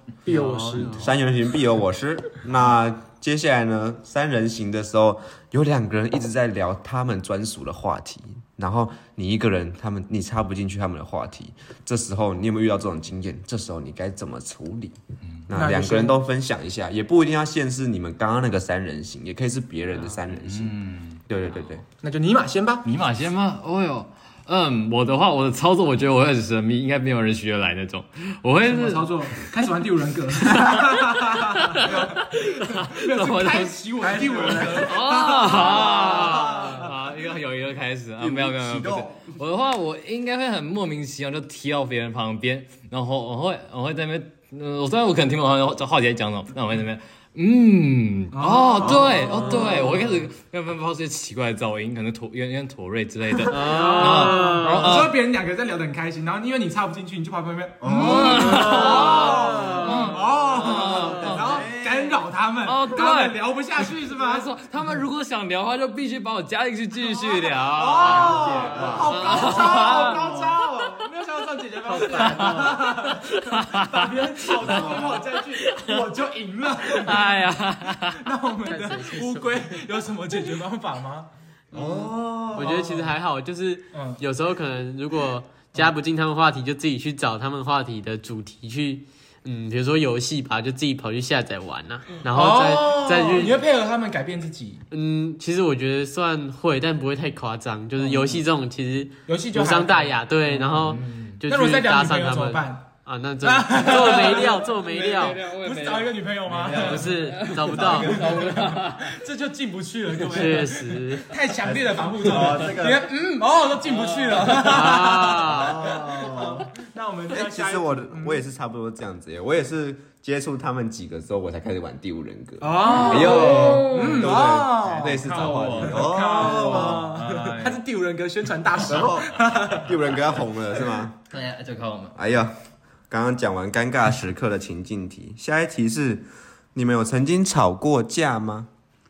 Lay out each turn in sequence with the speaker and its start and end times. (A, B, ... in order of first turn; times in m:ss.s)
0:00.2-0:01.1 A
0:00.3-0:01.0 B
0:00.8-0:21.8 C
0:15.5-0:16.2 A
0:20.1-0:21.2 B
0:22.0-0:22.9 A
0:22.8-0:29.5 B
0:28.6-0:36.9 A
0:30.5-0:33.8 B
0:34.0-0:36.9 C
0:34.4-0:55.2 B
0:38.2-0:39.4 C
0:48.3-0:49.8 A
0:48.8-0:49.9 C
0:49.2-0:50.1 D
0:53.5-0:55.0 D
0:53.7-1:04.5 A
0:57.8-1:02.2 C
0:57.9-1:01.6 B
0:58.9-1:00.1 D
1:02.6-1:10.3 B
1:07.0-1:17.5 A
1:08.0-1:11.1 C
1:11.8-1:12.8 D
1:12.1-1:16.0 B
1:14.6-1:15.2 C
1:16.9-1:18.2 B
1:18.1-1:21.9 A
1:18.7-1:19.8 D
1:21.7-1:22.8 C
1:21.8-1:33.6 D
1:22.6-1:23.1 A
1:23.9-1:24.2 A
1:32.3-1:34.8 A
1:34.9-1:45.4 D
1:38.0-1:38.4 A
1:39.3-1:40.2 A
1:40.5-1:41.4 B
1:41.5-1:42.9 A
1:43.4-1:47.2 A
1:44.1-1:49.2 B
1:46.7-1:48.3 D
1:47.6-1:48.3 C
1:47.8-1:58.4 A
1:50.2-1:50.7 B
1:50.3-1:51.3 D
1:51.6-1:53.1 C
1:53.8-1:54.8 B
1:54.6-1:55.8 D
1:55.4-1:56.7 C
1:57.3-2:07.1 C
2:02.6-2:10.2 A
2:02.8-2:04.5 B
2:05.2-2:07.8 B
2:08.8-2:11.2 C
2:11.3-2:12.1 B
2:12.2-2:12.6 C
2:13.1-2:18.7 C